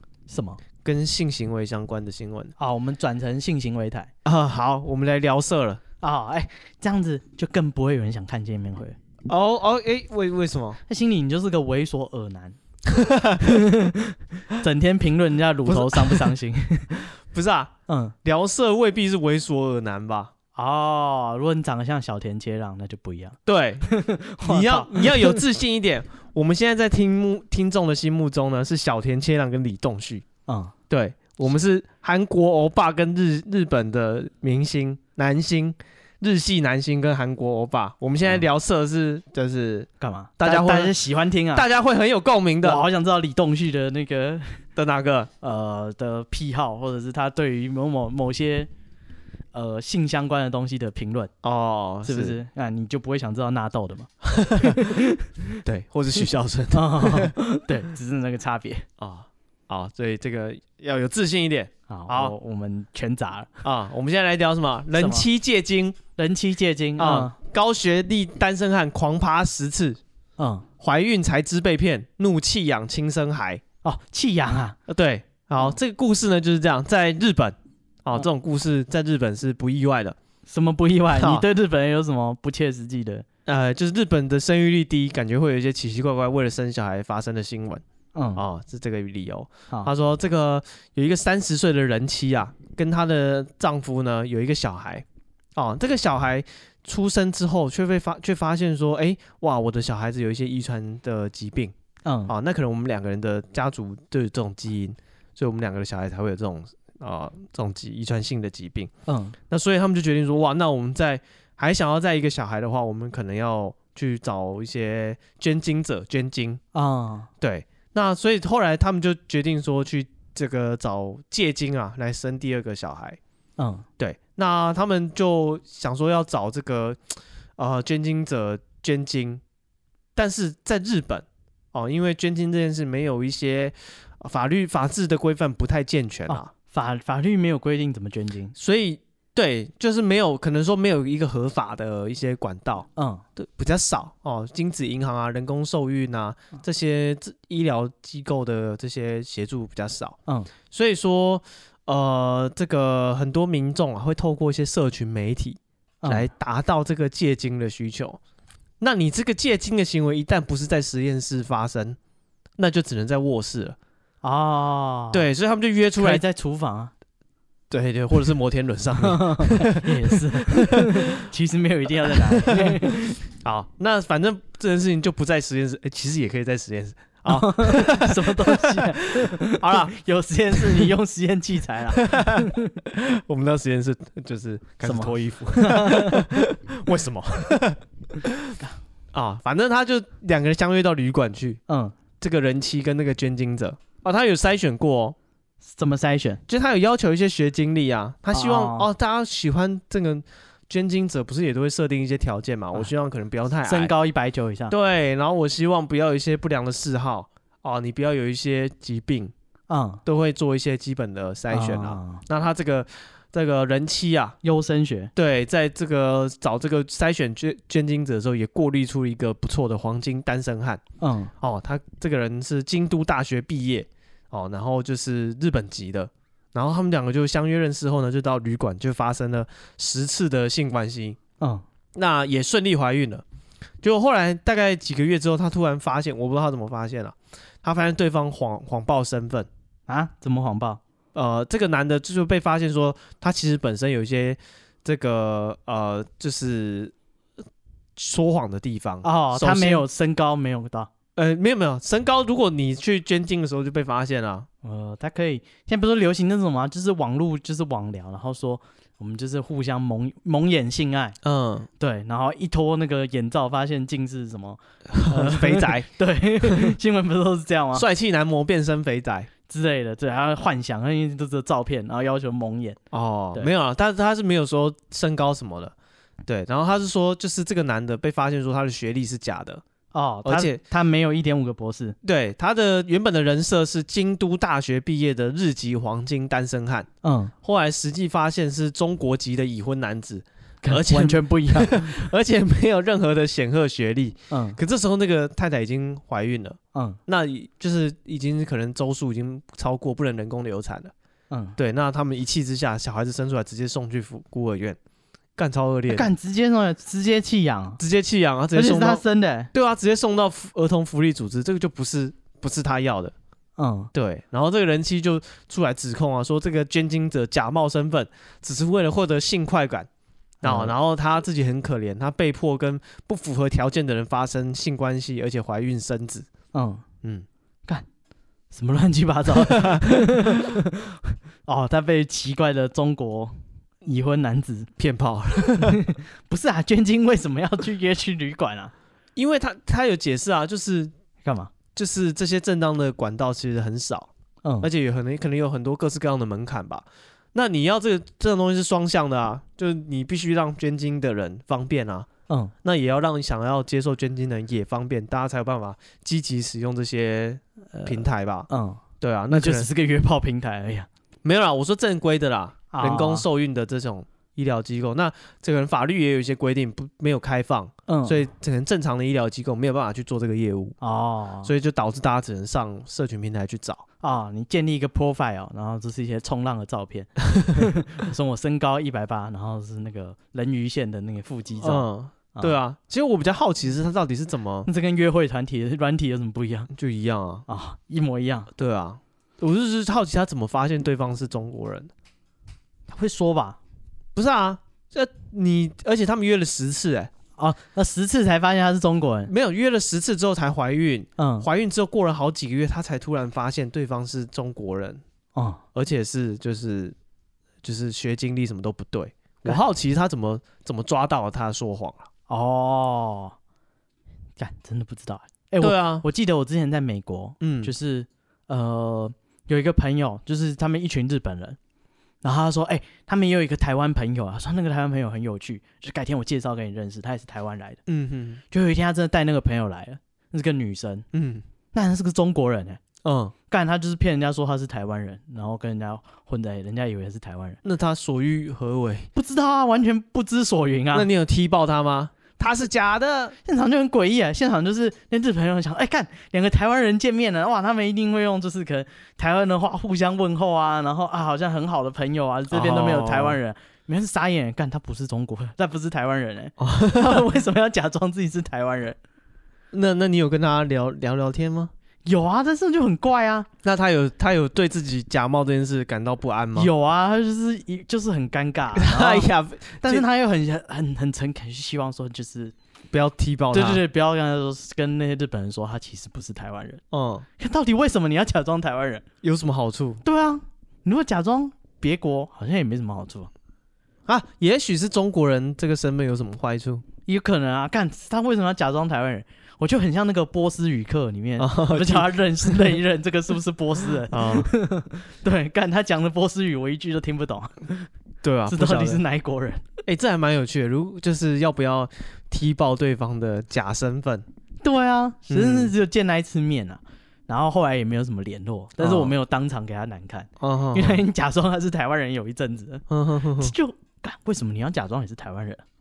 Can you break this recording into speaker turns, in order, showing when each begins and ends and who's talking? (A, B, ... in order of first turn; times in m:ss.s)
0:00.3-0:00.6 A
0:00.8-0:02.5 B
0:02.6-0:04.1 A
0:04.2-0:05.8 B
0:06.0-0:09.0 A
0:09.3-0:10.8 B
0:10.9-0:12.6 A
0:12.9-0:13.4 B
0:13.4-0:16.9 A
0:15.7-0:16.3 B
0:17.0-0:20.3 B
0:17.9-0:18.1 A
0:20.6-0:25.4 A
0:23.4-0:30.2 B
0:30.5-0:30.7 A
0:30.9-0:40.9 B
0:40.0-0:41.6 A
0:41.5-0:42.8 B
0:42.6-0:44.6 A
0:44.8-0:45.3 B
0:45.4-0:48.7 A
0:49.5-0:51.3 A
0:51.4-0:52.4 B
0:52.0-0:55.2 A
0:54.2-0:54.8 B
0:55.6-0:57.3 B
0:56.7-0:58.8 A
0:59.0-1:02.3 B
1:01.9-1:03.5 A
1:03.6-1:06.0 B
1:05.0-1:05.3 A
1:06.2-1:07.3 A
1:07.0-1:10.0 B
1:10.4-1:10.7 A
1:10.8-1:13.6 B
1:13.8-1:14.8 A
1:14.9-1:20.2 B
1:20.5-1:23.2 A
1:21.2-1:21.4 B
1:23.4-1:27.8 B
1:28.1-1:28.4 A
1:28.4-1:35.0 B
1:35.6-1:41.7 B
1:42.0-1:42.3 A
1:42.3-1:48.9 B
1:49.1-1:49.4 A
1:49.5-1:56.6 B
1:56.7-1:57.3 A
1:57.4-2:03.2 B
2:03.6-2:03.8 A
2:04.0-2:09.4 B
2:10.2-2:16.5 B
2:16.3-2:18.5 A
2:18.6-2:30.2 B
2:23.0-2:23.2 A
2:30.7-2:38.2 B
2:36.0-2:36.3 A
2:38.8-2:42.0 B
2:42.6-2:43.8 B
2:44.2-2:45.2 A
2:45.1-2:46.2 B
2:46.0-2:46.9 A
2:47.7-2:51.0 B
2:49.0-2:53.2 A
2:52.1-2:59.9 B
2:57.3-3:02.7 A
3:00.5-3:00.9 B
3:01.9-3:08.5 B
3:04.8-3:06.2 A
3:09.1-3:11.6 B
3:11.7-3:11.9 A
3:12.2-3:15.2 B
3:15.6-3:16.4 A
3:16.5-3:23.9 B
3:18.3-3:18.9 A
3:23.6-3:24.7 A
3:24.7-3:29.3 B
3:29.7-3:30.0 A
3:30.0-3:34.4 B
3:31.5-3:32.2 A
3:34.4-3:35.1 A
3:35.2-3:40.8 B
3:41.0-3:41.3 A
3:41.4-3:51.2 B
3:51.9-3:53.2 B
3:53.8-3:59.5 B
3:59.9-4:00.8 A
4:01.1-4:06.9 B
4:08.0-4:09.8 B
4:09.0-4:10.9 A
4:11.2-4:14.5 B
4:14.6-4:21.2 A
4:21.2-4:21.7 B
4:21.8-4:27.8 A
4:24.9-4:25.9 B
4:26.4-4:26.7 B
4:27.7-4:29.3 B
4:29.5-4:32.8 A
4:32.9-4:35.7 B
4:36.2-4:39.6 B
4:39.9-4:42.0 A
4:40.2-4:40.6 B
4:42.0-4:46.9 B
4:47.0-4:47.3 A
4:47.4-5:00.9 B
4:50.6-4:52.1 A
4:54.3-4:54.6 A
4:56.7-4:57.0 A
5:01.3-5:01.6 A
5:01.6-5:04.8 B
5:05.4-5:06.1 B
5:05.9-5:07.8 A
5:07.8-5:13.1 B
5:08.5-5:09.5 A
5:13.6-5:13.9 A
5:13.9-5:19.9 B
5:20.4-5:26.3 B
5:20.4-5:20.7 A
5:26.5-5:26.8 A
5:28.5-5:34.7 A
5:29.3-5:29.9 B
5:34.8-5:35.8 B
5:35.6-5:38.7 A
5:39.2-5:40.9 B
5:41.2-5:41.5 A
5:41.7-5:44.1 B
5:44.4-5:44.7 A
5:44.6-5:52.1 B
5:52.6-5:58.5 B
5:57.7-6:00.9 A
5:59.0-5:59.7 B
6:01.2-6:10.8 B
6:02.7-6:03.2 A
6:07.9-6:08.2 A
6:10.8-6:11.5 A
6:11.4-6:13.8 B
6:14.0-6:22.6 A
6:17.4-6:17.7 B
6:21.6-6:24.7 B
6:24.6-6:26.7 A
6:26.7-6:27.4 B
6:27.5-6:28.5 A
6:28.5-6:31.9 B
6:32.9-6:33.6 A
6:34.1-6:37.1 B
6:37.4-6:39.3 A
6:39.3-6:45.0 B
6:41.2-6:41.5 A
6:45.3-6:45.6 A
6:45.7-6:46.9 B
6:47.6-6:52.1 B
6:52.3-6:53.3 A
6:54.4-7:01.6 A
6:55.6-6:56.0 B
6:57.4-6:57.7 B
7:02.2-7:07.8 A
7:07.9-7:08.4 B
7:08.5-7:11.0 A
7:11.1-7:11.4 B
7:11.7-7:12.8 A
7:13.0-7:13.3 B
7:13.5-7:17.6 A
7:17.6-7:19.1 B
7:19.1-7:21.1 A
7:20.9-7:23.4 B
7:23.4-7:39.0 A
7:32.5-7:33.4 B
7:36.6-7:37.2 B
7:39.7-7:41.7 B
7:42.0-7:43.5 A
7:43.6-7:46.7 B
7:46.5-7:49.3 A
7:48.8-7:50.0 B
7:49.8-7:52.5 A
7:52.9-7:53.8 B
7:53.5-7:56.8 A
7:56.9-7:57.3 B
7:57.4-7:59.0 A
7:59.2-8:00.0 B
8:00.0-8:03.3 A
8:04.1-8:06.8 B
8:07.0-8:17.9 A
8:11.4-8:12.8 B
8:14.1-8:14.5 B
8:18.2-8:19.0 B
8:18.5-8:19.6 A
8:19.8-8:24.2 B
8:24.6-8:32.8 A
8:25.3-8:25.7 B
8:28.8-8:29.1 B
8:30.4-8:31.0 B
8:32.9-8:33.5 B
8:33.4-8:35.6 A